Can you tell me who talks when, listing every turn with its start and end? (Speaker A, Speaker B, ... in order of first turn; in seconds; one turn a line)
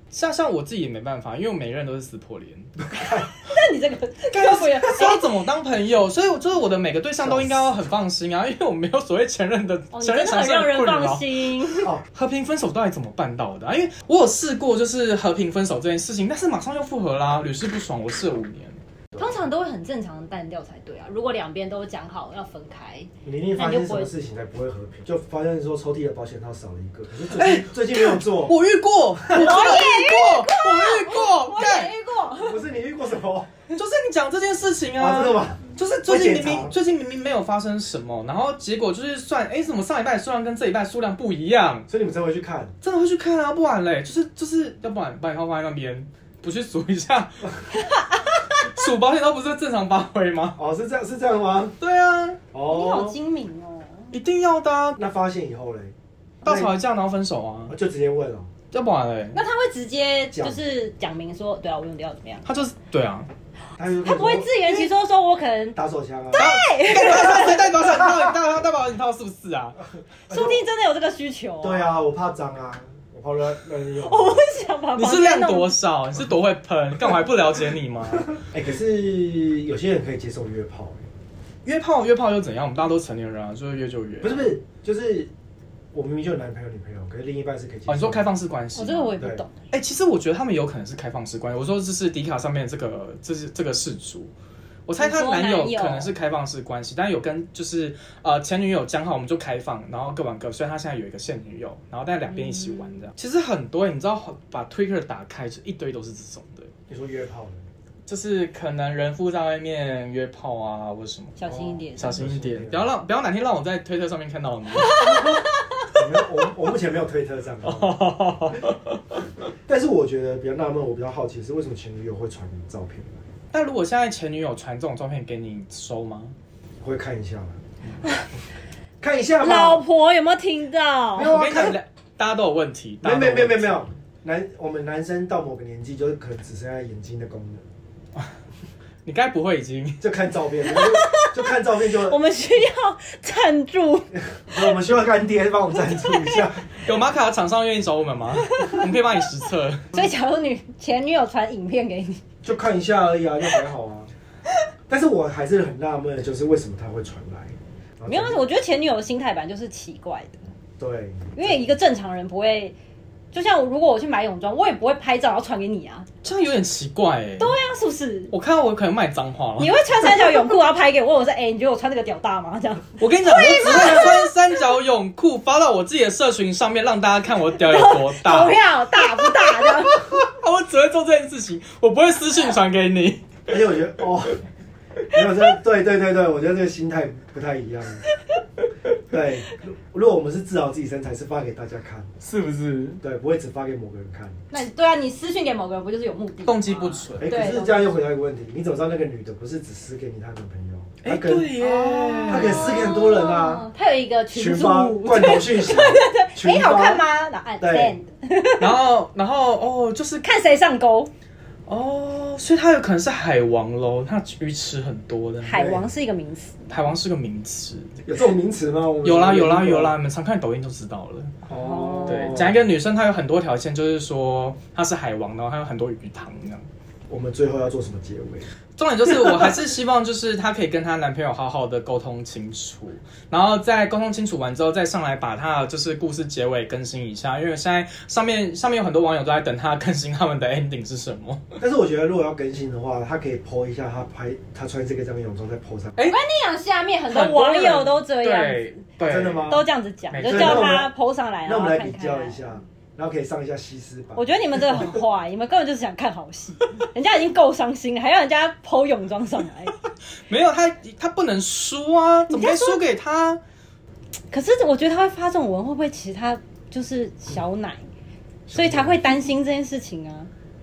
Speaker A: 0.1-2.7
Speaker B: 2.9-3.2
Speaker C: 3.1-5.2
Speaker A: 4.3-18.8
Speaker B: 7.2-7.6
Speaker C: 9.9-11.9
Speaker B: 19.1-19.4
Speaker C: 19.1-24.1
Speaker B: 23.2-28.5
Speaker A: 27.3-31.9
Speaker C: 29.3-32.6
Speaker B: 32.4-33.5
Speaker A: 33.7-41.9
Speaker B: 35.0-36.7
Speaker B: 41.9-42.7
Speaker A: 42.8-50.6
Speaker C: 47.7-48.0
Speaker B: 50.5-51.8
Speaker A: 51.8-52.4
Speaker B: 52.5-53.1
Speaker C: 52.7-54.1
Speaker A: 54.1-55.0
Speaker B: 55.0-56.7
Speaker A: 56.4-57.7
Speaker B: 57.7-58.5
Speaker A: 58.7-59.4
Speaker C: 59.3-62.5
Speaker B: 60.3-60.6
Speaker A: 62.4-63.3
Speaker B: 63.8-64.9
Speaker C: 64.0-65.8
Speaker B: 65.7-66.5
Speaker C: 66.3-68.0
Speaker A: 66.3-69.8
Speaker B: 70.3-70.6
Speaker C: 70.3-71.9
Speaker B: 71.6-74.4
Speaker C: 73.9-75.8
Speaker A: 75.0-78.4
Speaker B: 78.3-81.1
Speaker A: 81.6-84.6
Speaker B: 84.2-85.3
Speaker B: 85.9-88.2
Speaker A: 87.9-94.3
Speaker C: 88.7-89.6
Speaker B: 89.2-89.4
Speaker A: 94.8-106.7
Speaker C: 95.0-96.1
Speaker C: 102.3-103.1
Speaker B: 106.9-107.7
Speaker A: 108.0-115.3
Speaker C: 111.4-112.2
Speaker B: 111.5-112.9
Speaker C: 114.7-115.8
Speaker B: 115.9-118.0
Speaker A: 117.6-119.0
Speaker B: 119.7-123.2
Speaker A: 123.5-126.3
Speaker B: 126.8-127.6
Speaker C: 128.0-128.3
Speaker B: 129.0-129.8
Speaker C: 129.4-131.4
Speaker B: 131.1-131.8
Speaker A: 131.2-133.9
Speaker B: 133.0-137.6
Speaker A: 139.1-140.0
Speaker B: 140.0-142.2
Speaker C: 140.7-141.3
Speaker C: 141.8-144.2
Speaker B: 144.3-146.7
Speaker C: 145.8-146.4
Speaker A: 146.8-150.1
Speaker C: 148.4-148.9
Speaker C: 149.9-152.2
Speaker B: 152.4-154.1
Speaker B: 154.9-158.4
Speaker C: 158.1-160.5
Speaker B: 160.8-161.7
Speaker C: 161.3-162.8
Speaker C: 163.3-166.1
Speaker A: 166.2-167.5
Speaker C: 167.4-168.3
Speaker A: 168.3-169.8
Speaker C: 169.6-174.3
Speaker A: 173.0-178.6
Speaker C: 177.5-180.2
Speaker A: 179.2-183.4
Speaker B: 183.5-184.4
Speaker B: 185.1-188.0
Speaker B: 189.1-192.1
Speaker A: 192.2-193.0
Speaker B: 193.0-194.4
Speaker C: 194.5-197.8
Speaker A: 196.5-197.6
Speaker B: 197.2-201.5
Speaker A: 201.0-202.9
Speaker C: 201.6-208.8
Speaker B: 202.2-203.7
Speaker B: 204.3-207.0
Speaker B: 207.6-208.0
Speaker A: 208.6-210.2
Speaker C: 210.2-211.1
Speaker A: 211.7-215.6
Speaker C: 215.4-216.7
Speaker B: 215.5-215.9
Speaker A: 216.7-217.9
Speaker B: 218.1-219.9
Speaker A: 219.0-221.3
Speaker B: 221.5-222.7
Speaker C: 221.5-222.4
Speaker A: 222.1-226.7
Speaker B: 227.1-228.5
Speaker A: 228.8-241.4
Speaker B: 241.6-245.9
Speaker C: 246.0-248.8
Speaker A: 247.1-250.8
Speaker B: 249.0-249.7
Speaker C: 249.4-252.6
Speaker B: 250.2-250.9
Speaker B: 251.4-254.8
Speaker C: 254.1-259.7
Speaker A: 260.3-263.4
Speaker C: 262.3-262.8
Speaker C: 264.3-267.9
Speaker B: 268.5-269.0
Speaker C: 268.5-270.3